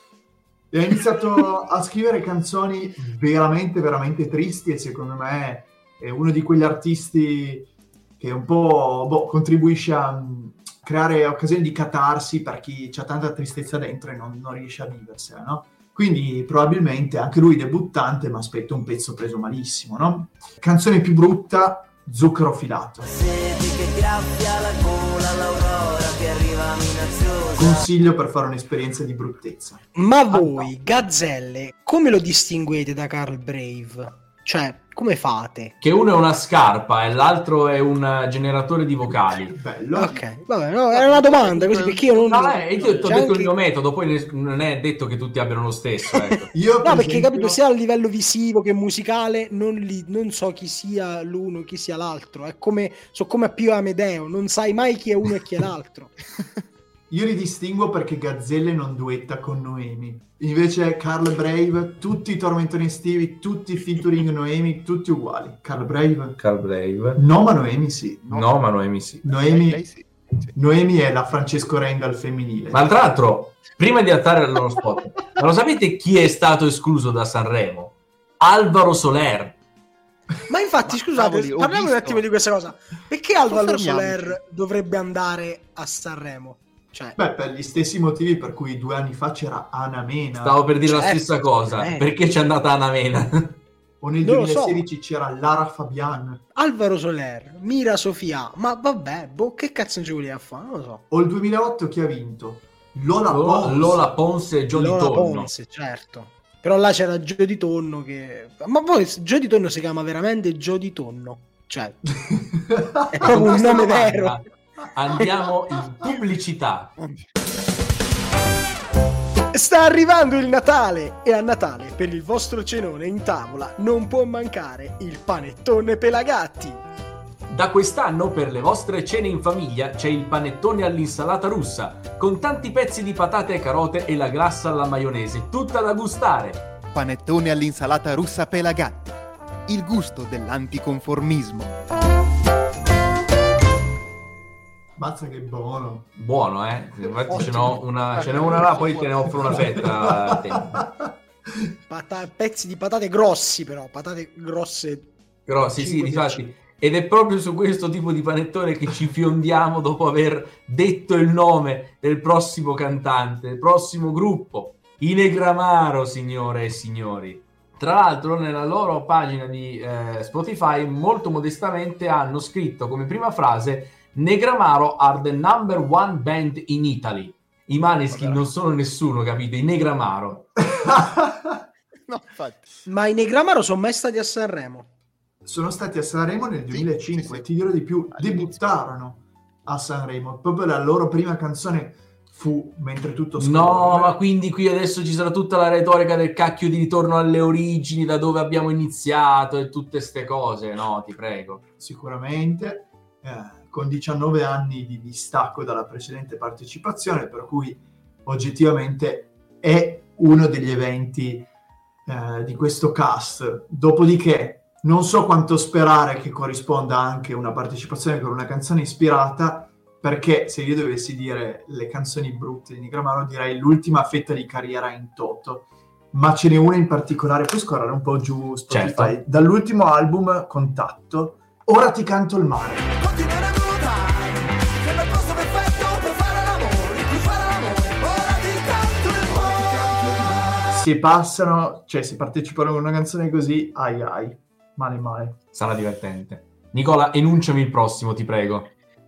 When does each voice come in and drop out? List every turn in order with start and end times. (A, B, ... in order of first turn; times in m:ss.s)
0:00.7-0:23.1 A
0:23.0-0:27.9 B
0:27.6-0:29.8 A
0:30.0-0:35.7 C
0:35.8-0:39.6 D
0:39.5-0:40.2 A
0:40.0-0:43.5 C
0:40.9-0:43.3 E
0:42.3-0:46.5 D
0:46.2-0:56.1 C
0:46.5-0:47.6 A
0:57.1-1:06.4 A
1:06.4-1:07.2 D
1:07.2-1:08.3 A
1:08.2-1:08.6 E
1:08.3-1:09.2 D
1:09.1-1:10.5 E
1:09.2-1:09.8 A
1:10.6-1:12.9 A
1:12.7-1:19.6 D
1:20.5-1:27.2 C
1:20.9-1:22.2 E
1:23.5-1:24.4 E
1:27.2-1:30.6 A
1:30.4-1:33.6 D
1:30.8-1:32.1 C
1:34.0-1:36.4 A
1:34.2-1:34.9 C
1:36.6-1:41.0 C
1:41.1-1:44.1 A
1:43.3-1:45.5 D
1:44.7-1:52.0 C
1:52.2-1:53.4 A
1:53.1-1:54.4 C
1:53.2-1:56.9 D
1:57.0-1:57.3 E
1:59.5-2:06.8 C
2:07.5-2:16.6 D
2:16.9-2:21.8 E
2:25.0-2:26.1 A
2:26.2-2:30.8 D
2:27.3-2:29.5 C
2:28.5-2:28.8 E
2:29.4-2:31.7 A
2:31.9-2:35.1 C
2:35.5-3:00.5 D
2:35.8-2:36.4 C
2:58.1-2:58.5 E
3:00.6-3:01.6 A
3:02.1-3:02.7 E
3:02.9-3:04.9 C
3:05.4-3:14.2 A
3:06.7-3:07.5 E
3:08.1-3:08.8 E
3:13.4-3:21.6 D
3:21.8-3:31.5 A
3:32.1-3:52.9 A
3:48.7-3:49.2 D
3:52.9-4:00.4 B
4:00.7-4:05.4 A
4:05.5-4:08.7 D